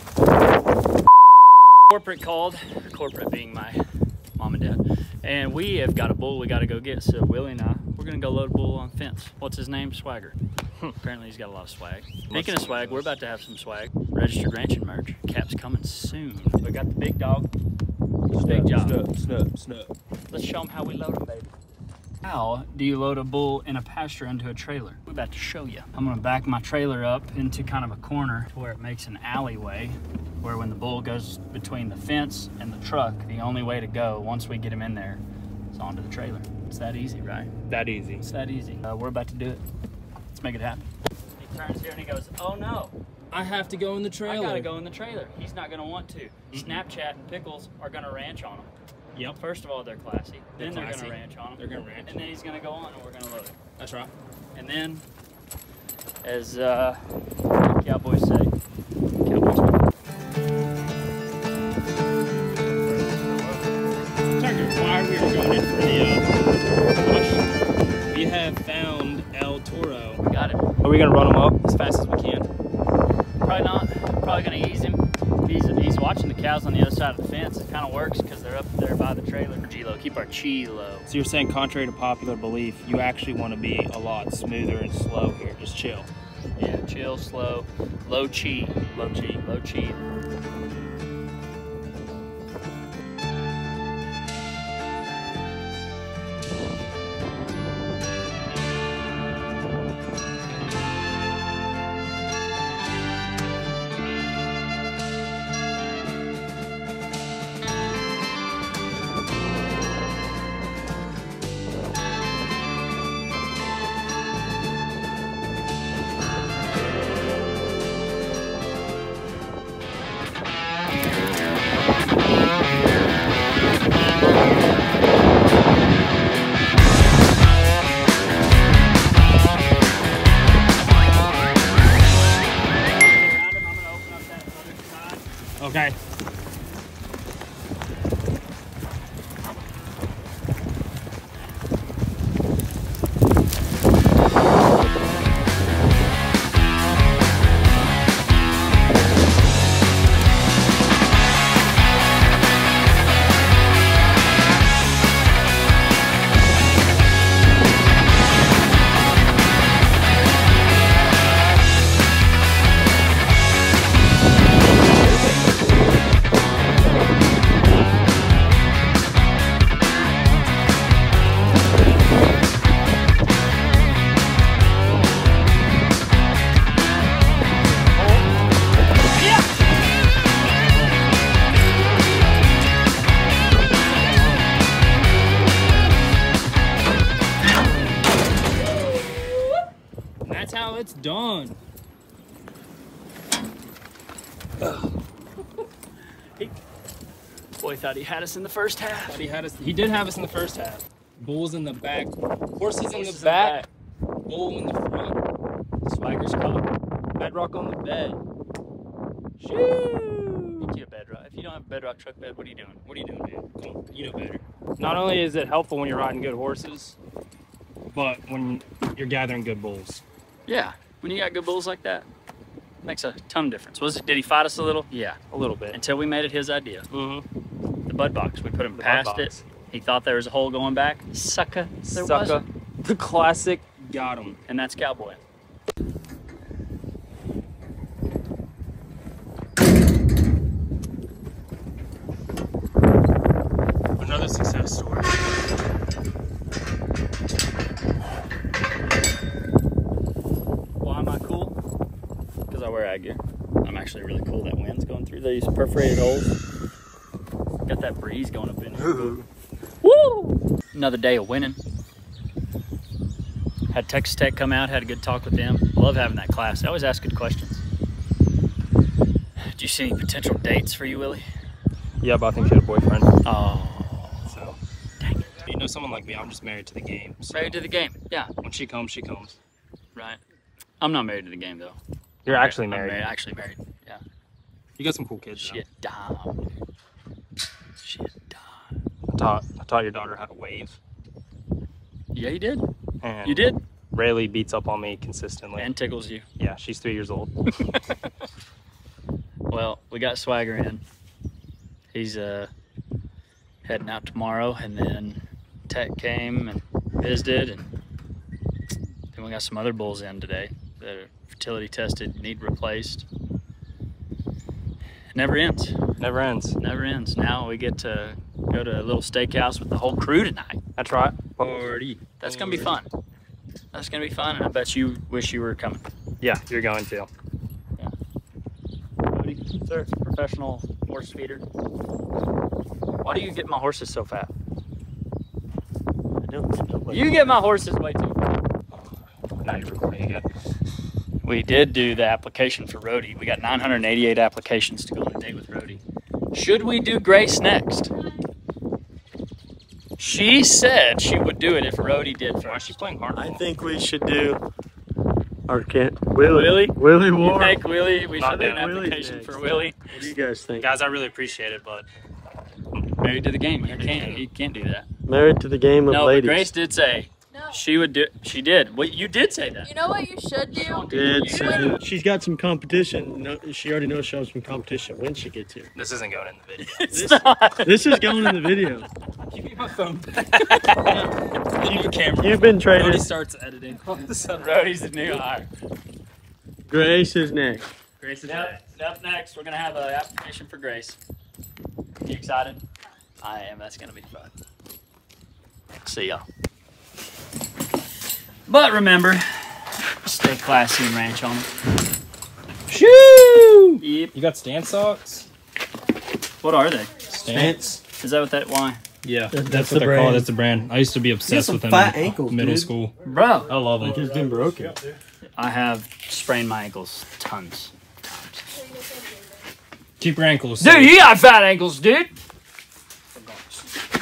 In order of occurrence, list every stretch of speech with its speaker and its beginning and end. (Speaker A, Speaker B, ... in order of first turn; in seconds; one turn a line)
Speaker A: 1.9-3.8
Speaker A: 4.4-10.4
Speaker A: 11.0-17.5
Speaker B: 12.3-13.1
Speaker B: 18.3-19.9
Speaker A: 18.3-19.0
Speaker A: 20.3-21.5
Speaker A: 22.2-37.5
Speaker B: 37.7-38.2
Speaker A: 38.2-39.6
Speaker A: 40.3-42.9
Speaker B: 43.3-44.7
Speaker A: 44.2-48.7
Speaker B: 46.5-46.8
Speaker A: 49.3-53.6
Speaker B: 50.5-52.2
Speaker B: 53.8-54.1
Speaker A: 54.5-55.0
Speaker A: 56.2-57.0
Speaker A: 57.5-58.5
Speaker A: 59.2-59.8
Speaker A: 62.5-64.0
Speaker B: 64.3-66.4
Speaker B: 67.0-67.5
Speaker B: 68.1-70.2
Speaker A: 70.2-70.6
Speaker B: 70.8-72.5
Speaker A: 73.4-81.1
Speaker B: 81.1-86.1
Speaker A: 86.6-90.0
Speaker A: 132.8-135.2
Speaker B: 135.6-135.9
Speaker B: 183.9-184.4
Speaker B: 190.2-191.6
Speaker B: 194.6-194.9
Speaker A: 197.6-199.2
Speaker B: 199.1-203.6
Speaker A: 202.9-203.7
Speaker B: 204.2-205.2
Speaker A: 205.8-206.7
Speaker B: 207.2-208.2
Speaker B: 209.4-210.7
Speaker A: 210.6-212.8
Speaker B: 212.8-217.0
Speaker B: 217.9-220.0
Speaker A: 220.5-222.1
Speaker A: 222.8-225.2
Speaker B: 225.3-225.8
Speaker A: 225.7-226.9
Speaker B: 226.9-227.2
Speaker A: 227.9-232.4
Speaker B: 228.7-229.4
Speaker B: 231.8-234.4
Speaker A: 234.5-235.2
Speaker B: 244.0-245.2
Speaker A: 250.8-251.6
Speaker A: 252.5-256.3
Speaker A: 257.6-259.2
Speaker A: 259.8-261.6
Speaker A: 263.7-267.6
Speaker A: 269.5-271.2
Speaker B: 272.0-273.1
Speaker A: 273.2-274.3
Speaker B: 274.3-274.6
Speaker A: 275.0-275.3
Speaker B: 275.4-277.6
Speaker A: 277.3-278.3
Speaker B: 278.4-279.4
Speaker A: 279.9-280.2
Speaker A: 280.8-281.8
Speaker B: 282.2-283.1
Speaker A: 282.3-284.0
Speaker B: 284.8-285.6
Speaker A: 285.4-286.4
Speaker A: 287.8-288.7
Speaker B: 289.1-290.8
Speaker A: 292.1-292.6
Speaker B: 293.0-295.7
Speaker A: 293.2-293.6
Speaker A: 295.6-296.2
Speaker B: 296.4-297.3
Speaker A: 299.5-300.8
Speaker A: 301.9-302.5
Speaker A: 303.6-307.7
Speaker A: 309.1-313.1
Speaker A: 315.1-315.8
Speaker B: 316.0-316.6
Speaker A: 316.6-320.6
Speaker B: 320.8-322.7
Speaker A: 322.2-322.9
Speaker A: 323.7-325.8
Speaker B: 326.2-327.1
Speaker A: 329.1-331.4
Speaker A: 333.0-334.3
Speaker C: 336.2-337.2
Speaker A: 336.9-338.2
Speaker B: 338.7-340.2
Speaker A: 341.2-347.9
Speaker A: 350.0-352.8
Speaker B: 352.4-353.4
Speaker C: 353.1-354.4
Speaker C: 355.5-357.6
Speaker A: 356.3-359.8
Speaker B: 358.2-358.7
Speaker C: 358.2-360.7
Speaker B: 360.6-361.9
Speaker A: 363.0-364.9
Speaker B: 363.7-364.2
Speaker C: 365.1-366.5
Speaker A: 365.9-369.7
Speaker D: 369.7-371.8
Speaker A: 370.5-371.8
Speaker C: 370.9-375.7
Speaker B: 371.3-371.8
Speaker B: 375.7-376.9
Speaker A: 376.6-378.4
Speaker C: 376.9-378.9
Speaker B: 379.3-384.4
Speaker A: 380.5-381.1
Speaker C: 381.6-383.1
Speaker A: 384.2-385.5
Speaker C: 386.7-387.7
Speaker B: 388.0-388.6
Speaker A: 388.2-391.0
Speaker A: 392.0-392.6
Speaker A: 393.2-394.3
Speaker A: 395.8-396.2
Speaker A: 398.5-401.5
Speaker B: 402.7-405.3
Speaker A: 403.8-404.1
Speaker A: 406.4-407.1
Speaker B: 407.1-407.6
Speaker C: 407.3-407.8
Speaker A: 408.0-408.8
Speaker B: 409.0-412.9
Speaker C: 409.3-410.3
Speaker C: 411.3-412.7
Speaker A: 413.0-413.5
Speaker B: 413.4-414.1
Speaker C: 413.8-414.8
Speaker A: 415.4-418.5
Speaker D: 418.7-419.4
Speaker B: 420.0-421.0
Speaker A: 420.6-422.1
Speaker A: 423.1-423.4